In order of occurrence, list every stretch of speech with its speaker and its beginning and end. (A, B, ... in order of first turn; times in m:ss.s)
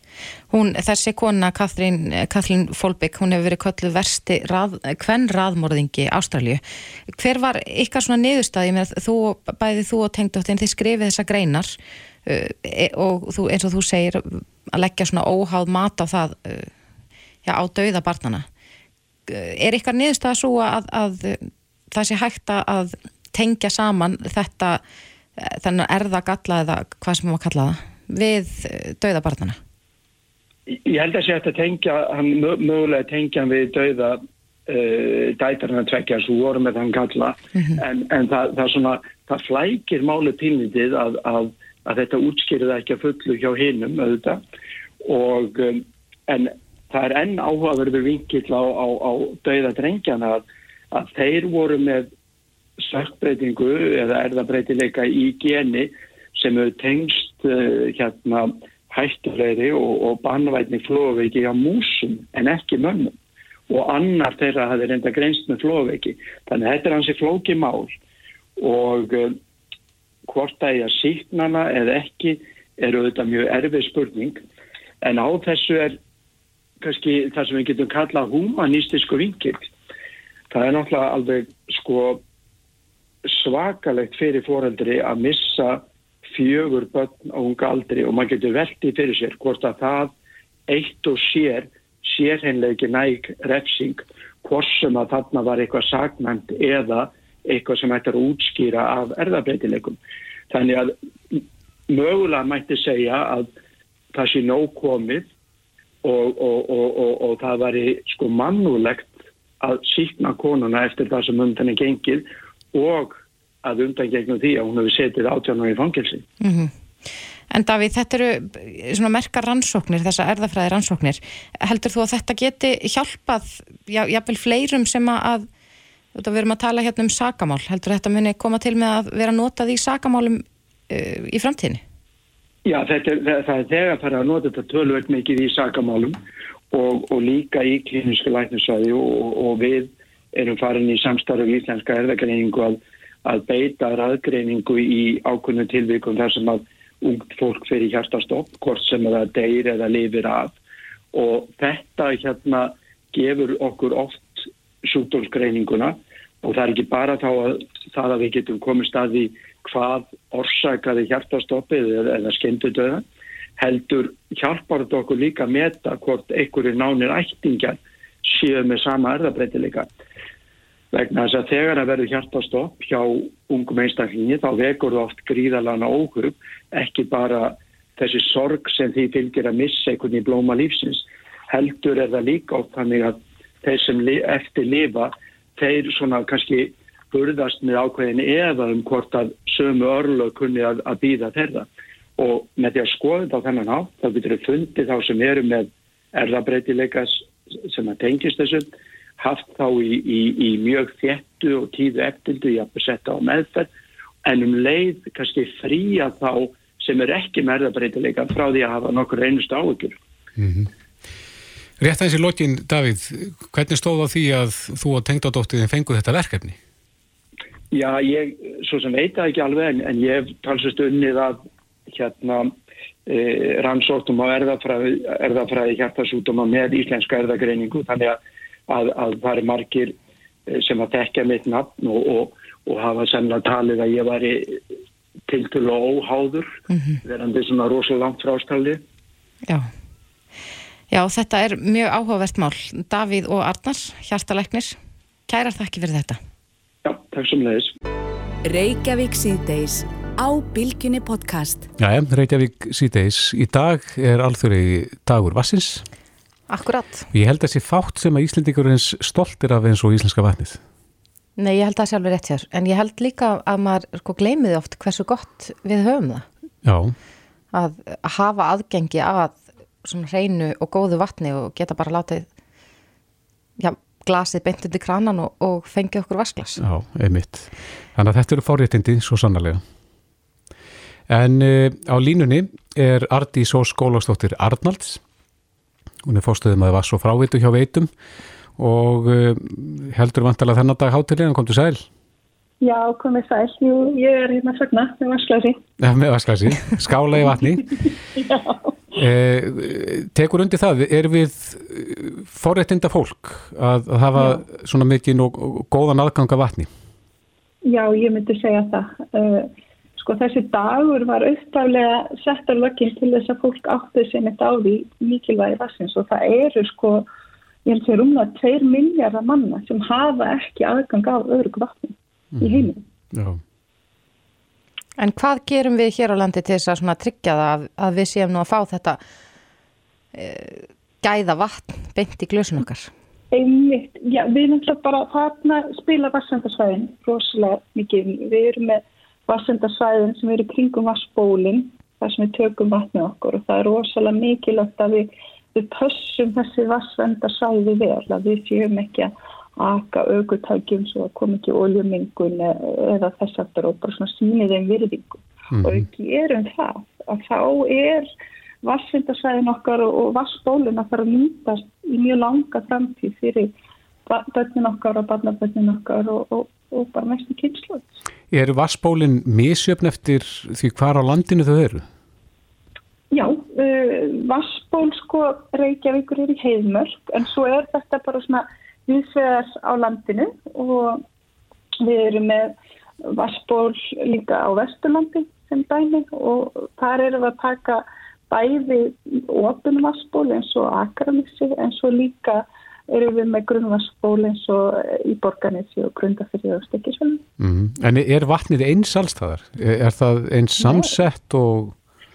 0:00.5-0:11.7 A
0:12.2-0:16.7 A
0:17.4-0:18.4 A
0:19.3-0:24.8 A
0:25.4-0:29.6 A
0:30.7-0:44.4 B
0:45.0-0:52.1 B
0:52.8-1:03.1 B
1:03.7-1:08.0 B
1:08.6-1:09.4 B
1:10.2-1:14.4 B
1:15.0-1:16.0 B
1:16.8-1:19.7 B
1:20.5-1:22.2 B
1:23.2-1:30.1 B
1:30.7-1:40.0 B
1:40.5-1:43.5 B
1:44.1-1:45.3 B
1:46.0-1:56.2 B
1:56.4-1:56.7 A
1:57.5-2:05.4 A
2:06.1-2:11.8 A
2:12.6-2:16.2 B
2:16.7-2:30.6 B
2:31.1-2:43.0 B
2:43.6-2:49.9 B
2:50.9-3:23.7 B
3:24.2-3:30.0 B
3:30.4-3:30.7 C
3:31.8-3:36.6 C
3:37.7-3:42.5 B
3:43.0-3:49.9 B
3:50.5-3:54.6 B
3:55.3-3:58.8 B
4:00.9-4:04.8 A
4:05.3-4:06.2 A
4:06.8-4:07.7 B
4:08.4-4:11.7 D
4:11.8-4:15.8 C
4:16.5-4:17.1 A
4:17.1-4:20.6 C
4:21.4-4:26.2 A
4:26.6-4:26.9 C
4:27.5-4:32.2 A
4:33.6-4:36.6 A
4:36.6-4:39.6 C
4:41.1-4:45.0 C
4:46.0-4:47.9 C
4:48.6-4:51.9 C
4:52.6-4:55.6 E
4:55.8-4:57.9 C
4:58.1-4:58.8 E
4:58.9-5:06.7 C
5:07.6-5:17.1 E
5:17.6-5:22.8 E
5:22.4-5:23.4 C
5:25.0-5:29.0 A
5:30.1-5:32.9 A
5:33.3-5:58.1 E
5:55.5-5:55.9 C
5:58.6-6:03.5 E
6:04.1-6:08.0 E
6:08.3-6:11.8 C
6:13.1-6:21.0 E
6:21.8-6:22.5 E
6:23.0-6:37.2 E
6:37.4-6:41.7 C